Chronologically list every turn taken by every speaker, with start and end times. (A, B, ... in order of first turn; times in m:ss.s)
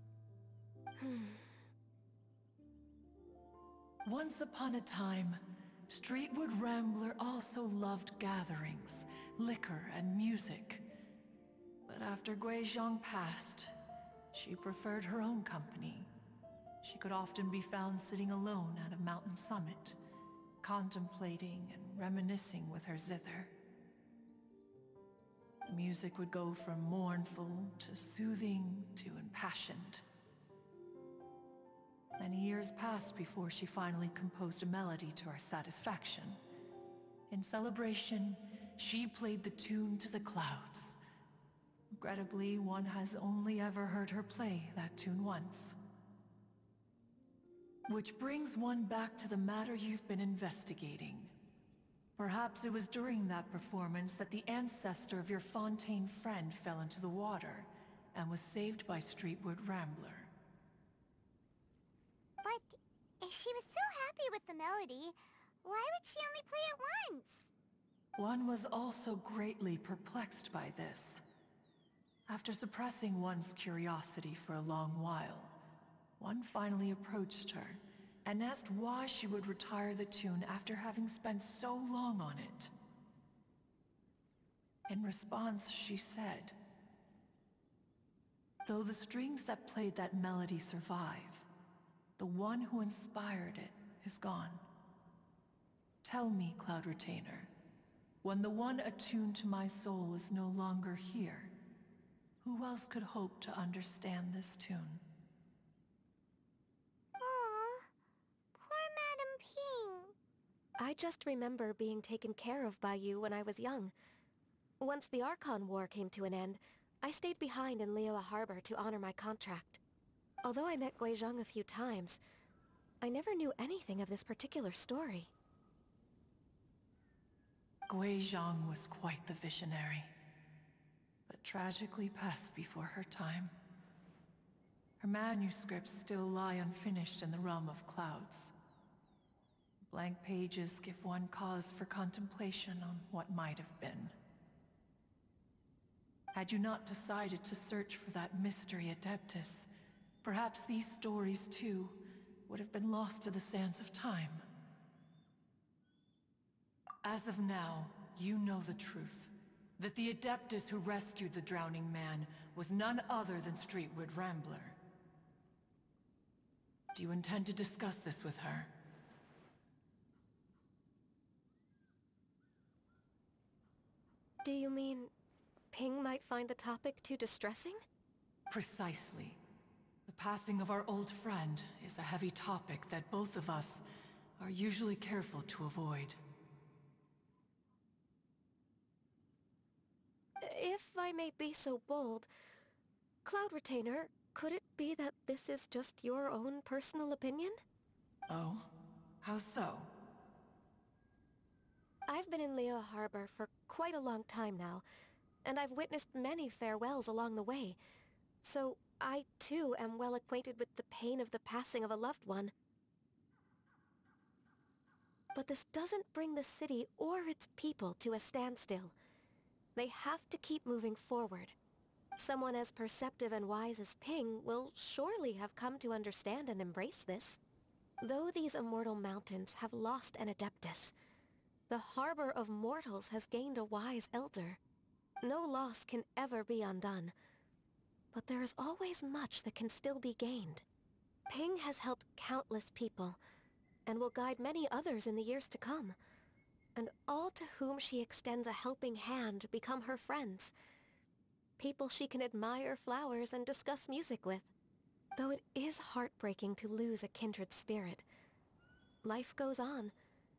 0:01.0-0:01.4 A
0:04.0-0:10.8 B
0:11.8-0:13.7 B
0:14.3-0:16.1 B
0:16.8-0:20.0 B
0:20.6-0:23.6 B
0:25.6-0:30.0 B
0:32.2-0:36.4 B
0:37.3-0:41.0 B
0:41.9-0:45.8 B
0:47.9-0:51.3 B
0:52.2-1:00.3 B
1:02.4-1:07.5 C
1:08.2-1:11.2 B
1:12.3-1:15.5 B
1:16.2-1:22.7 B
1:24.9-1:26.6 B
1:28.6-1:31.4 B
1:32.2-1:34.6 B
1:36.0-1:37.5 B
1:38.2-1:41.5 B
1:42.4-1:45.0 B
1:47.2-1:47.9 C
1:48.5-1:50.1 C
1:50.8-1:53.9 A
1:54.8-1:59.8 A
2:00.4-2:02.2 A
2:03.0-2:05.3 A
2:07.9-2:10.1 B
2:11.3-2:13.5 B
2:15.0-2:18.5 B
2:19.9-2:24.1 B
2:26.3-2:29.7 B
2:30.2-2:34.4 B
2:37.0-2:44.8 B
2:46.9-2:48.7 B
2:54.4-2:55.1 A
2:55.7-2:57.8 A
2:58.5-2:59.4 B
3:00.1-3:03.8 B
3:04.4-3:06.2 B
3:10.4-3:12.3 A
3:13.2-3:17.6 A
3:18.3-3:18.7 B
3:19.2-3:19.9 B
3:22.1-3:24.8 A
3:25.4-3:27.8 A
3:28.4-3:32.5 A
3:35.3-3:39.0 A
3:39.8-3:41.5 A
3:42.2-3:47.4 A
3:48.0-3:50.9 A
3:51.7-3:54.6 A
3:55.2-3:57.1 A
3:58.1-4:00.6 A
4:01.3-4:03.2 A
4:03.8-4:06.0 A
4:06.8-4:10.5 A
4:11.6-4:14.5 A
4:15.2-4:18.0 A
4:19.0-4:19.9 A